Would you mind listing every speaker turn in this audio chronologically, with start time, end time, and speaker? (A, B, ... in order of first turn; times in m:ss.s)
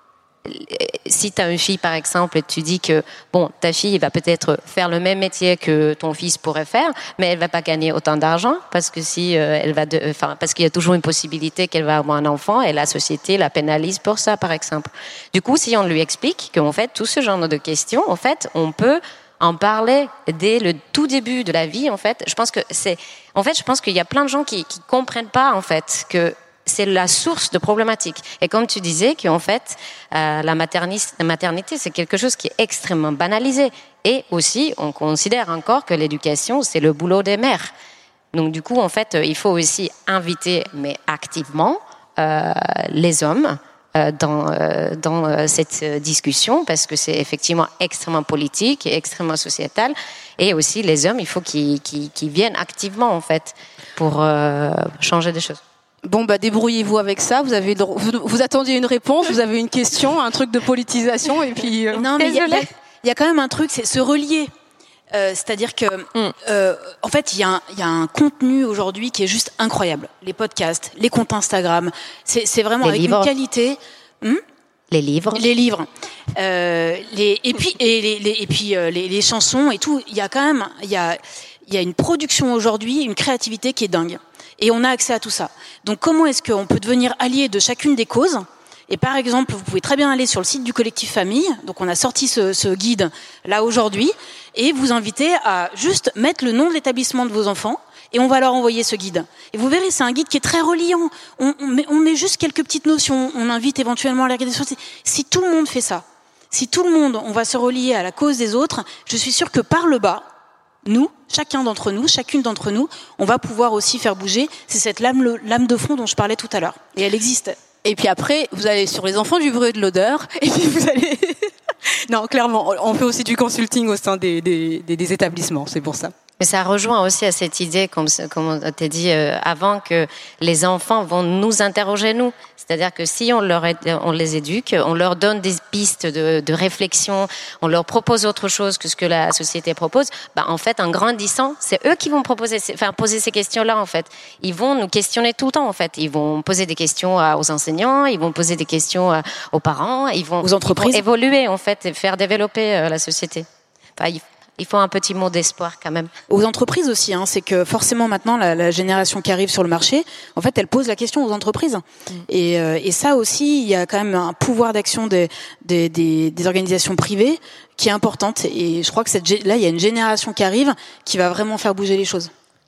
0:00.4-0:37.7 A
0:38.3-0:55.6 A
0:56.0-1:02.6 B
1:01.9-1:04.5 C
1:05.1-1:14.4 C
1:12.8-1:13.3 A
1:14.9-1:15.4 A
1:15.3-1:50.2 C
1:50.8-1:57.6 C
1:57.8-2:06.1 B
2:06.4-2:33.4 A
2:30.4-2:31.0 C
2:34.0-2:36.1 A
2:36.3-2:52.3 C